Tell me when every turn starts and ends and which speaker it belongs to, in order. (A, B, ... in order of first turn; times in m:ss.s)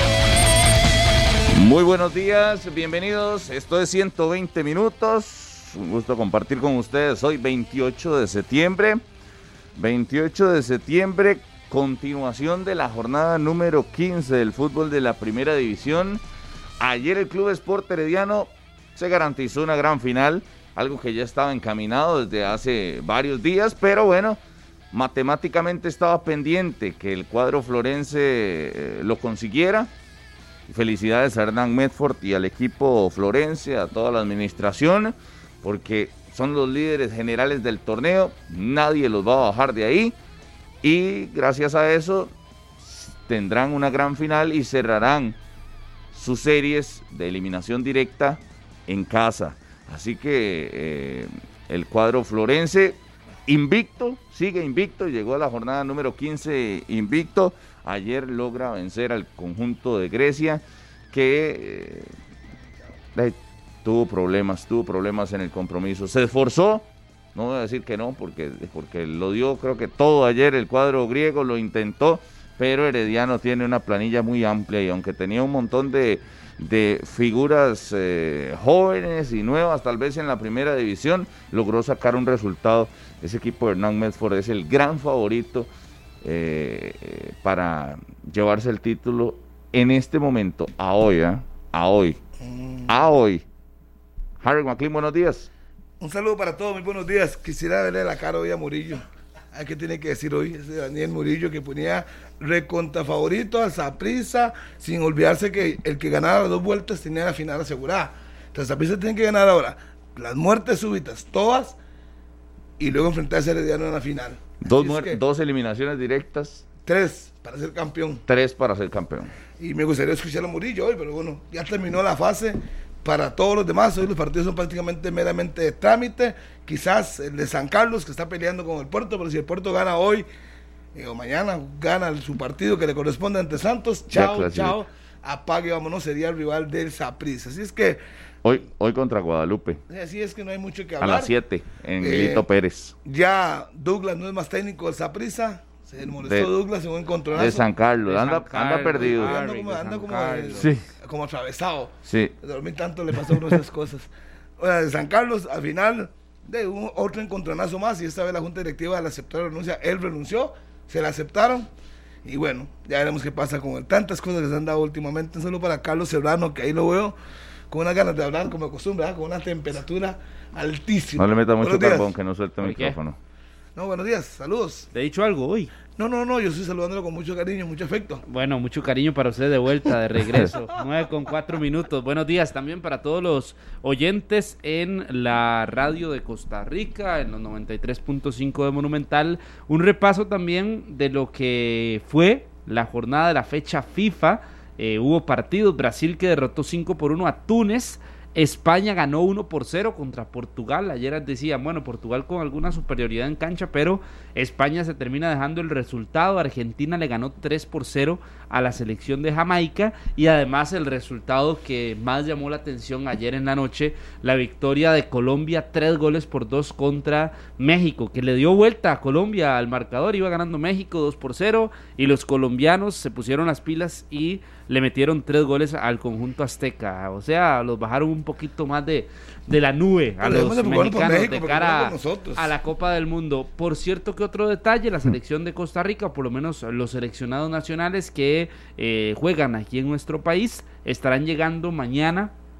0:01.5-0:09.0 A
0:09.8-0:16.2 A
0:16.8-0:24.4 A
0:24.9-0:29.9 A
0:30.7-0:40.1 A
0:40.8-0:45.4 A
0:46.1-1:02.1 A
1:03.1-1:25.7 A
1:26.2-1:32.2 A
1:32.4-1:32.9 B
1:32.9-1:33.4 A
1:34.4-1:35.5 A
1:36.0-1:51.8 B
1:52.8-1:55.2 B
1:54.6-1:56.6 A
1:56.8-1:58.2 B
1:58.3-1:59.3 A
1:59.6-2:10.2 B
2:10.9-2:18.0 B
2:14.1-2:14.8 A
2:18.4-2:19.8 A
2:19.9-2:21.3 B
2:21.0-2:22.9 A
2:22.0-2:22.4 B
2:23.0-2:27.6 B
2:26.2-2:26.5 A
2:27.3-2:29.4 A
2:28.0-2:30.7 C
2:28.9-2:41.7 B
2:32.0-2:32.3 A
2:42.2-2:47.1 B
2:47.7-2:52.1 B
2:51.2-2:53.2 A
2:52.6-2:53.0 C
2:53.8-2:54.9 B
2:54.9-2:55.7 C
2:56.0-2:58.2 B
2:58.2-4:02.3 C
3:50.2-3:52.5 B